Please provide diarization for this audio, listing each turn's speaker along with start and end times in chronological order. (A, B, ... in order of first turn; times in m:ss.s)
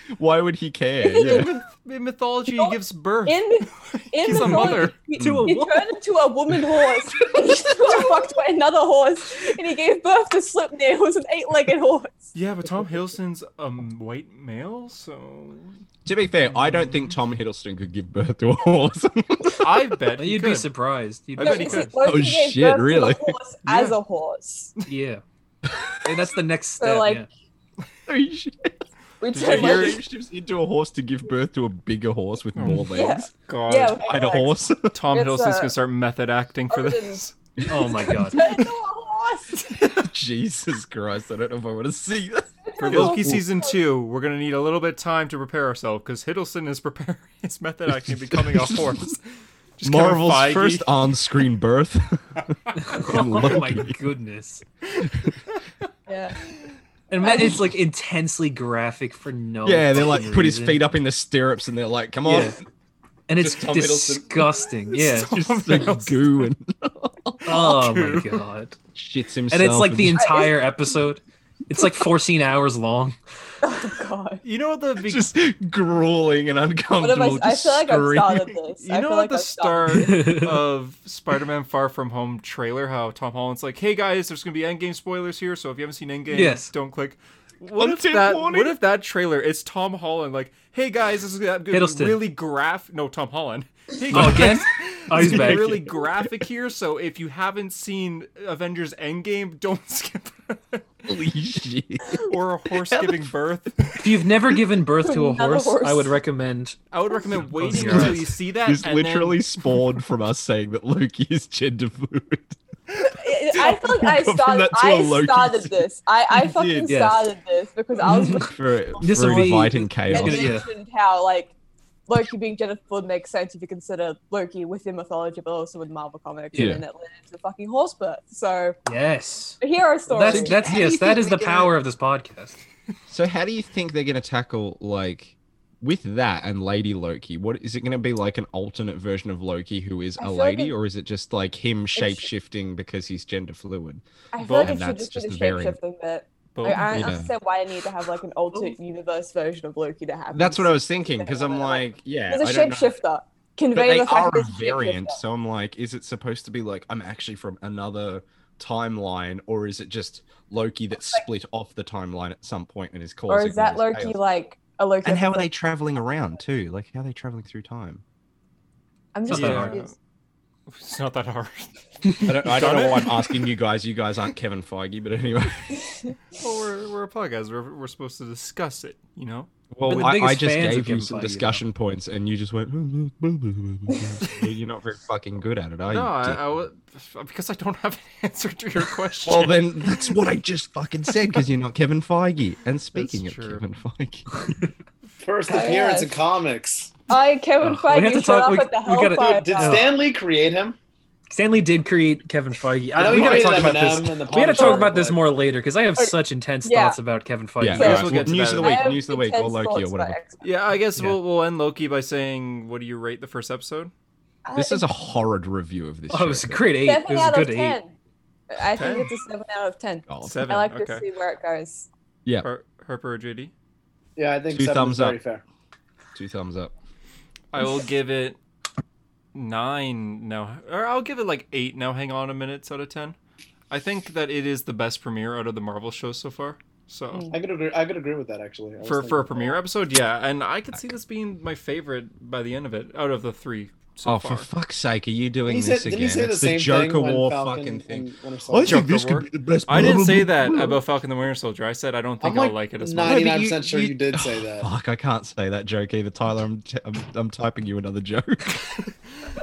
0:00.2-0:01.5 A
0:01.0-0:01.5 B
0:01.2-0:05.0 C
0:02.6-0:12.3 B
0:04.3-0:04.7 A
0:04.7-0:06.0 D
0:05.2-0:05.5 A
0:12.3-0:15.8 C
0:16.0-0:19.9 A
0:19.6-0:20.7 C
0:20.2-0:21.9 D
0:21.4-0:21.9 C
0:21.4-0:24.7 B
0:22.0-0:23.4 A
0:23.7-0:24.0 C
0:24.9-0:25.2 D
0:26.0-0:27.3 D
0:26.8-0:27.3 B
0:28.1-0:28.8 A
0:29.2-0:30.0 B
0:29.3-0:30.0 C
0:29.4-0:33.3 A
0:32.6-0:32.9 C
0:32.9-0:34.6 B
0:33.4-0:34.0 C
0:34.0-0:35.0 A
0:34.9-0:37.3 C
0:35.1-0:35.7 B
0:36.7-0:37.2 B
0:37.7-0:38.4 D
0:37.8-0:39.7 B
0:40.0-0:43.4 A
0:42.7-0:43.8 B
0:42.8-0:50.9 C
0:48.0-0:49.1 A
0:49.8-0:54.0 A
0:52.8-0:54.6 D
0:56.1-0:56.4 B
0:57.1-1:00.8 D
0:57.2-0:57.6 B
0:59.6-1:02.6 A
1:02.2-1:02.6 D
1:03.3-1:05.3 D
1:03.4-1:04.3 A
1:04.9-1:06.2 C
1:05.3-1:07.7 A
1:07.5-1:08.8 D
1:07.5-1:08.4 C
1:09.0-1:10.3 A
1:09.5-1:13.2 D
1:10.2-1:10.6 B
1:13.6-1:14.4 B
1:14.4-1:15.3 C
1:15.0-1:18.6 A
1:17.0-1:20.2 B
1:18.8-1:40.8 C
1:19.9-1:20.6 D
1:26.3-1:26.7 D
1:27.8-1:28.8 A
1:31.7-1:32.2 D
1:34.1-1:34.5 A
1:34.1-1:35.8 D
1:35.2-1:36.3 A
1:41.1-1:43.3 A
1:42.2-1:44.0 C
1:44.0-1:46.8 D
1:45.0-1:46.2 B
1:46.9-1:49.5 C
1:47.5-1:48.3 D
1:47.7-1:52.6 A
1:53.0-2:01.5 B
1:53.5-1:57.0 A
1:56.9-1:57.3 D
1:58.1-1:58.4 D
1:58.1-2:00.6 A
1:59.0-2:00.7 D
2:02.1-2:08.8 B
2:06.6-2:06.8 A
2:08.9-2:09.6 D
2:09.6-2:10.6 B
2:10.1-2:12.6 D
2:10.2-2:11.8 A
2:13.1-2:25.8 A
2:20.2-2:20.8 B
2:22.0-2:22.3 B
2:24.3-2:35.2 B
2:24.4-2:24.8 C
2:26.6-2:27.1 C
2:26.9-2:27.3 A
2:30.3-2:33.0 A
2:33.7-2:44.2 A
2:43.3-2:45.5 B
2:45.0-2:48.0 A
2:49.1-2:49.9 B
2:49.3-2:49.8 D
2:49.3-2:49.9 C
2:50.7-2:53.5 C
2:52.3-2:55.7 A
2:56.4-2:59.5 C
2:59.7-3:06.6 A
2:59.9-3:01.6 D
3:05.9-3:10.1 C
3:09.2-3:14.3 A
3:12.9-3:13.6 C
3:14.4-3:14.7 D
3:15.2-3:17.0 E
3:15.5-3:16.2 B
3:17.1-3:19.9 B
3:17.6-3:19.9 D
3:19.2-3:20.8 E
3:21.3-3:28.3 D
3:23.0-3:25.2 E
3:23.2-3:23.5 A
3:24.6-3:24.9 B
3:26.0-3:27.0 B
3:27.6-3:30.2 A
3:27.8-3:29.0 C
3:27.8-3:30.5 B
3:30.4-3:33.9 C
3:34.4-3:34.8 B
3:34.5-3:36.7 A
3:36.1-3:37.8 D
3:36.8-3:37.9 B
3:38.5-3:41.9 B
3:38.7-3:39.1 C
3:40.1-3:40.4 A
3:40.2-3:41.1 C
3:42.4-3:43.5 C
3:44.2-3:45.4 E
3:44.5-3:45.2 A
3:46.2-3:46.7 A
3:47.5-3:48.4 C
3:49.3-3:53.2 C
3:53.7-3:57.3 C
3:57.1-3:57.4 B
3:57.3-3:59.6 E
3:58.8-4:04.5 C
4:04.0-4:10.8 A
4:05.5-4:08.8 E
4:08.6-4:13.3 C
4:12.2-4:14.7 E
4:13.0-4:18.8 A